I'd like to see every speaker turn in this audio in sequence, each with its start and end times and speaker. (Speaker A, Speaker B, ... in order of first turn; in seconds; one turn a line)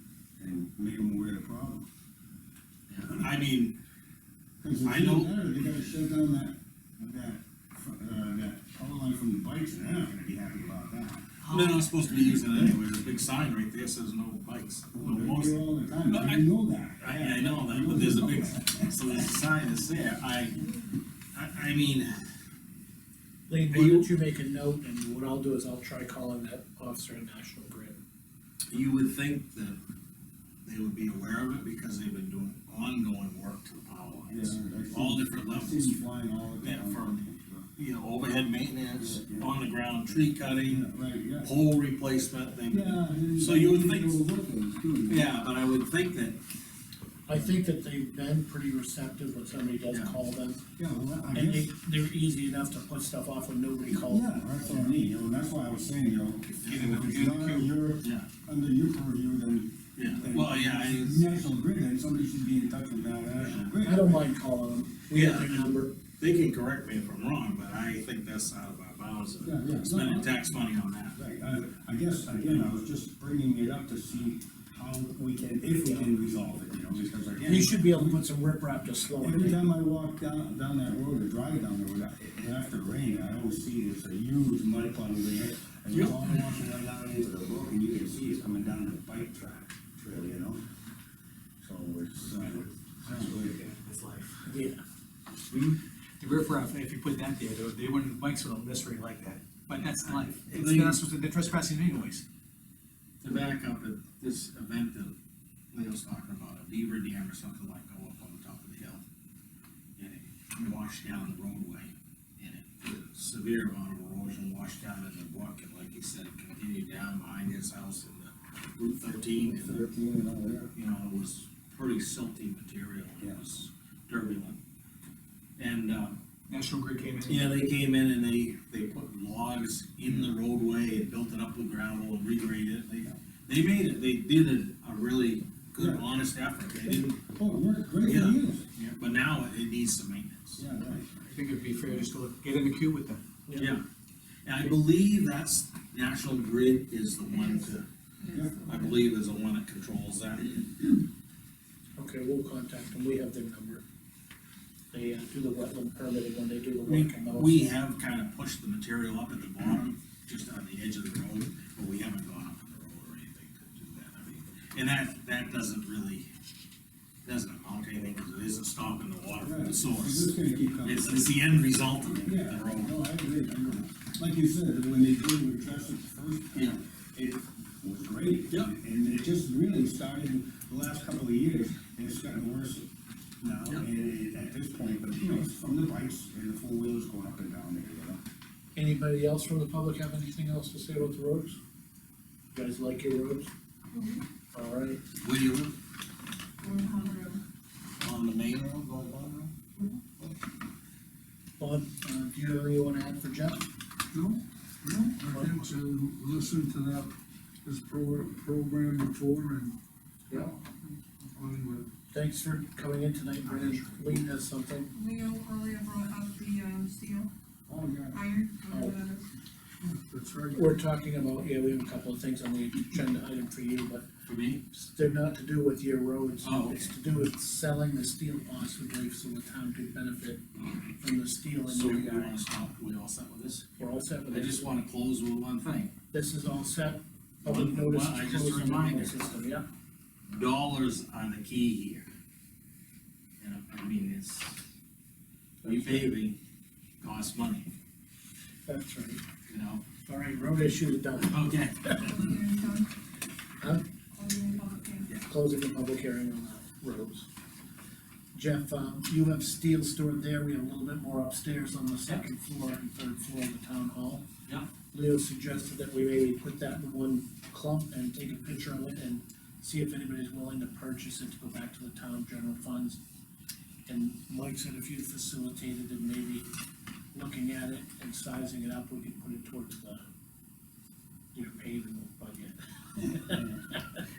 Speaker A: 0.4-1.9
Speaker B: 2.9-3.8
Speaker A: 4.6-11.3
Speaker B: 4.8-5.4
Speaker B: 11.4-16.5
Speaker A: 14.9-19.1
Speaker B: 17.0-20.7
Speaker B: 21.3-22.2
Speaker C: 23.5-28.0
Speaker B: 23.7-24.1
Speaker B: 28.7-29.8
Speaker B: 30.6-36.0
Speaker A: 34.3-37.7
Speaker B: 36.6-40.9
Speaker A: 39.0-39.5
Speaker A: 40.5-41.5
Speaker B: 41.4-44.2
Speaker A: 42.7-45.3
Speaker B: 45.1-46.4
Speaker C: 47.3-50.6
Speaker B: 49.9-50.2
Speaker A: 50.8-51.7
Speaker C: 51.3-54.3
Speaker A: 53.9-64.3
Speaker B: 56.5-58.3
Speaker B: 59.9-61.2
Speaker C: 63.8-65.9
Speaker B: 65.1-71.2
Speaker A: 69.4-70.3
Speaker A: 71.2-78.2
Speaker C: 77.4-79.6
Speaker A: 79.2-90.6
Speaker B: 85.9-86.2
Speaker A: 91.6-93.6
Speaker D: 92.3-94.5
Speaker C: 94.5-94.8
Speaker D: 95.5-102.2
Speaker B: 100.5-100.9
Speaker C: 100.6-102.0
Speaker B: 103.2-105.2
Speaker B: 105.7-109.0
Speaker B: 110.0-119.8
Speaker A: 119.3-120.7
Speaker B: 120.7-124.6
Speaker B: 125.6-126.2
Speaker D: 126.5-127.7
Speaker B: 127.3-137.2
Speaker A: 135.8-136.1
Speaker A: 137.2-138.7
Speaker B: 138.0-140.6
Speaker A: 140.6-141.2
Speaker D: 141.3-143.2
Speaker C: 143.5-143.7
Speaker B: 143.5-143.8
Speaker B: 144.4-147.9
Speaker E: 148.2-148.9
Speaker A: 148.3-148.6
Speaker B: 148.6-150.9
Speaker C: 152.0-153.8
Speaker C: 154.9-157.7
Speaker B: 156.8-166.3
Speaker B: 167.2-172.9
Speaker A: 169.4-171.4
Speaker A: 172.0-182.9
Speaker A: 183.4-188.2
Speaker C: 188.8-191.6
Speaker C: 192.5-193.5
Speaker E: 193.9-194.2
Speaker C: 194.5-195.0
Speaker B: 195.2-195.7
Speaker E: 196.6-197.4
Speaker B: 198.0-199.5
Speaker C: 201.6-203.7
Speaker F: 204.1-207.1
Speaker C: 205.3-205.7
Speaker F: 207.6-209.8
Speaker F: 210.3-211.9
Speaker C: 212.1-214.9
Speaker B: 213.4-213.9
Speaker E: 214.9-217.3
Speaker A: 217.7-218.2
Speaker E: 218.1-219.3
Speaker C: 218.7-218.9
Speaker F: 219.8-220.8
Speaker C: 220.5-224.0
Speaker B: 224.3-224.6
Speaker C: 224.7-230.4
Speaker B: 226.4-226.9
Speaker C: 231.0-232.4
Speaker B: 231.6-235.9
Speaker C: 233.8-234.7
Speaker C: 236.1-239.6
Speaker B: 237.4-239.2
Speaker B: 240.3-242.1
Speaker B: 243.4-244.6
Speaker C: 245.6-246.1
Speaker B: 245.6-246.4
Speaker B: 247.0-247.7
Speaker C: 248.7-249.2
Speaker B: 249.5-249.8
Speaker C: 250.1-252.1
Speaker B: 251.2-252.2
Speaker E: 252.0-252.9
Speaker E: 254.1-255.1
Speaker C: 255.2-257.3
Speaker C: 258.3-264.2
Speaker C: 264.9-273.0
Speaker C: 273.9-276.5
Speaker C: 277.1-280.0
Speaker C: 281.3-283.8
Speaker A: 283.3-283.6